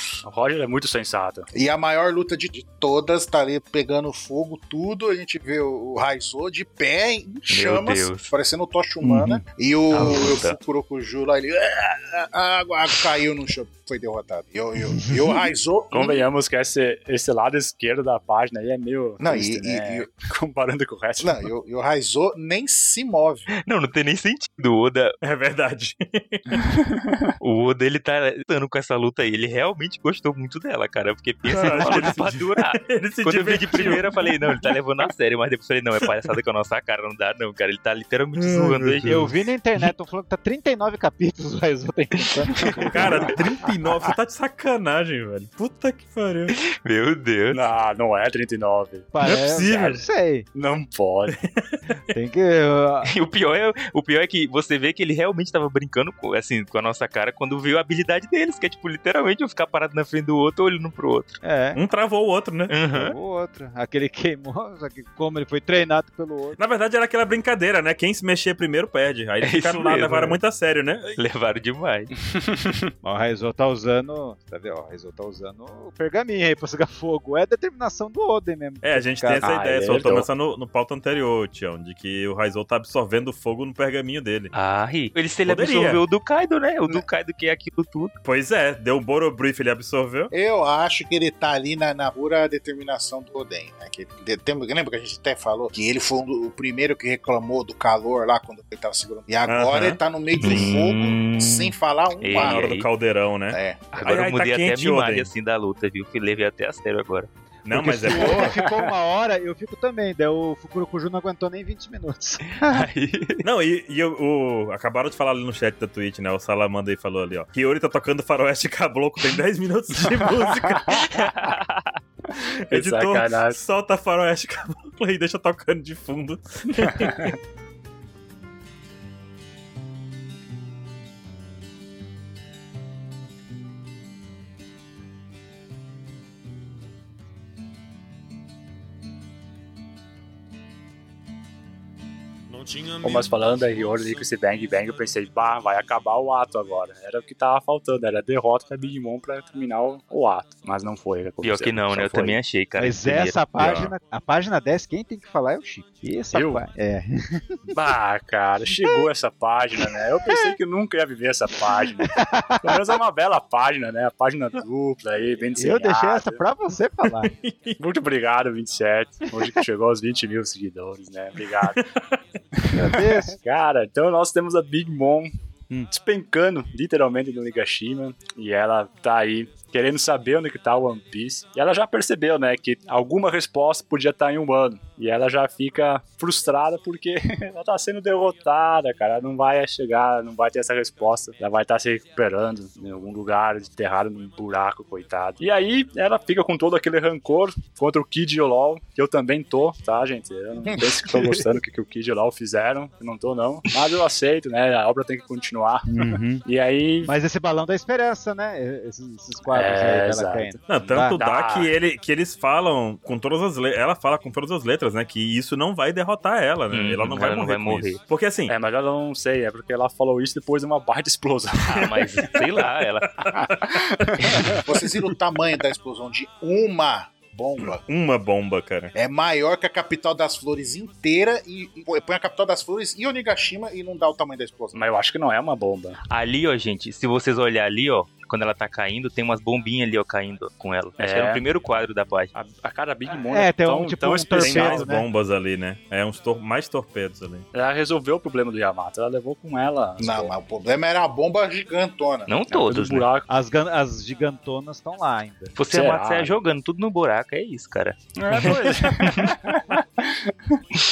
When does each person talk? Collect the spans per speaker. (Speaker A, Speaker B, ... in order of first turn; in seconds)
Speaker A: 0.2-1.5, 15.9-21.4, 26.8-27.3, 42.6-43.1, 47.5-49.1, 50.5-51.4, 72.3-72.8, 79.4-80.3, 108.3-108.9, 120.1-120.8, 122.7-123.6, 126.9-127.3, 142.9-152.4, 156.3-156.6, 157.7-162.1, 162.6-166.4, 167.8-171.8, 172.6-175.3, 175.9-207.1, 209.5-210.6, 211.1-211.7, 218.5-222.3, 223.2-224.7, 234.7-236.0, 241.0-241.4, 242.3-244.9, 247.5-250.3, 252.5-253.3, 255.7-256.4, 258.2-260.6
Speaker B: 1.5-16.3, 19.2-20.1, 21.2-23.5, 90.3-102.7, 103.5-103.8, 200.7-201.4, 224.6-227.8, 228.9-234.8, 250.0-252.3
Speaker C: 7.5-8.3, 9.9-10.6, 23.6-25.2, 27.4-39.3, 46.5-47.6, 53.0-61.4, 62.7-63.2, 69.4-70.4, 71.2-72.1, 84.5-88.2, 100.4-102.9, 103.9-107.3, 112.6-113.5, 121.1-122.0, 151.4-153.5, 216.7-218.0, 221.7-223.3, 236.1-242.3, 252.3-253.1, 255.6-259.3
Speaker D: 9.0-9.4, 31.7-32.2, 39.1-43.4, 49.1-50.5, 52.1-53.1, 61.4-61.8, 62.9-66.6, 73.0-79.6, 107.7-112.9, 152.8-157.7, 160.3-160.5, 162.0-163.0, 165.6-167.3, 172.7-173.4, 205.9-206.4, 207.1-211.2, 243.3-245.1, 253.3-255.5
Speaker E: 25.2-26.7, 31.5-34.7, 38.4-39.3, 42.9-46.5, 49.2-50.1, 51.4-52.0, 61.7-62.8, 66.6-71.2, 78.8-84.5, 85.5-86.0, 88.2-90.3, 99.5-100.0, 102.3-105.3, 107.7-108.5, 113.4-121.3, 122.3-127.4, 153.6-153.9, 167.2-167.8, 171.8-172.2, 210.7-218.5, 223.2-224.4, 227.8-228.9, 244.4-247.5, 258.3-258.6